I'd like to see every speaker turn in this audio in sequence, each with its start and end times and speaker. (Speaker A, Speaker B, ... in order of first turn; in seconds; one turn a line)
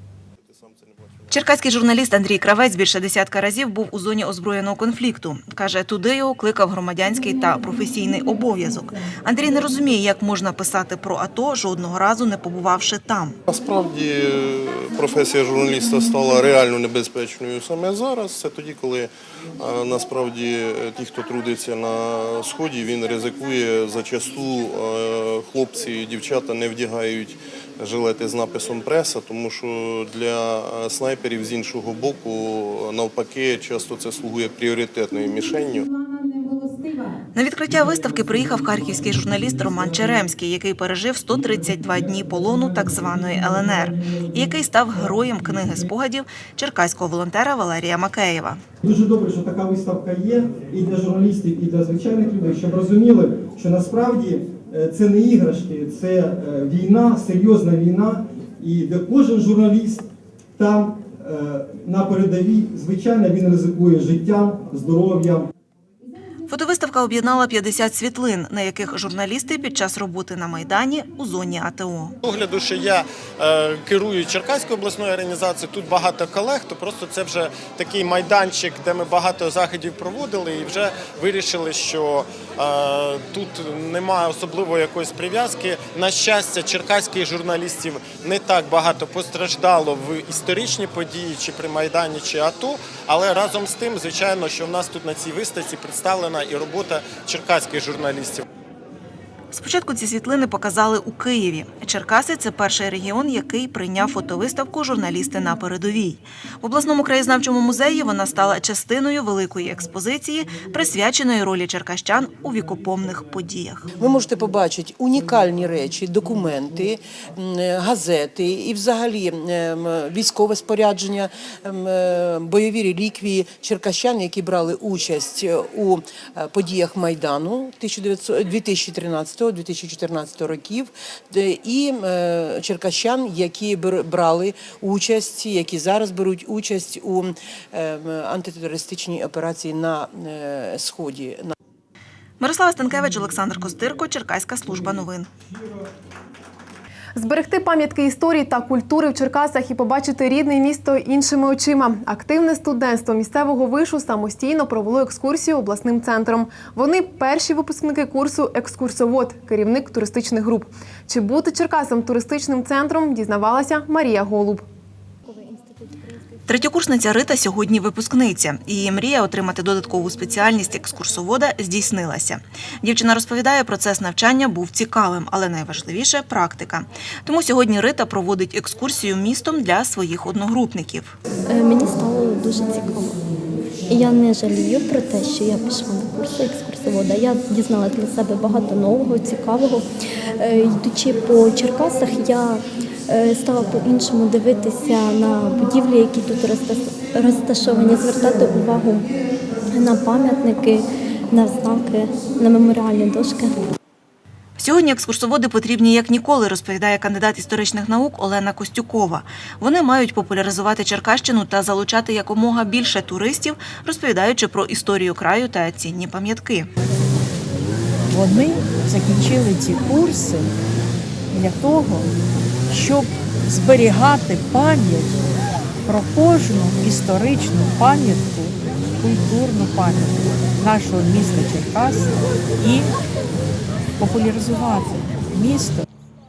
Speaker A: 0.5-1.3
Speaker B: 1.3-13.4
Speaker A: 13.5-35.9
Speaker B: 37.4-48.6
Speaker C: 48.8-60.1
Speaker C: 60.6-65.5
Speaker B: 66.5-72.2
Speaker D: 72.2-98.4
Speaker B: 99.5-113.9
Speaker E: 114.0-141.5
Speaker B: 142.4-145.3
Speaker F: 147.2-164.6
Speaker G: 165.3-166.1
Speaker B: 166.5-181.2
Speaker G: 181.5-183.2
Speaker G: 183.9-189.9
Speaker G: 190.4-199.1
Speaker G: 199.7-203.6
Speaker B: 204.6-216.7
Speaker H: 218.1-220.5
Speaker H: 221.3-222.1
Speaker H: 222.7-225.2
Speaker H: 225.8-232.9
Speaker H: 234.0-235.9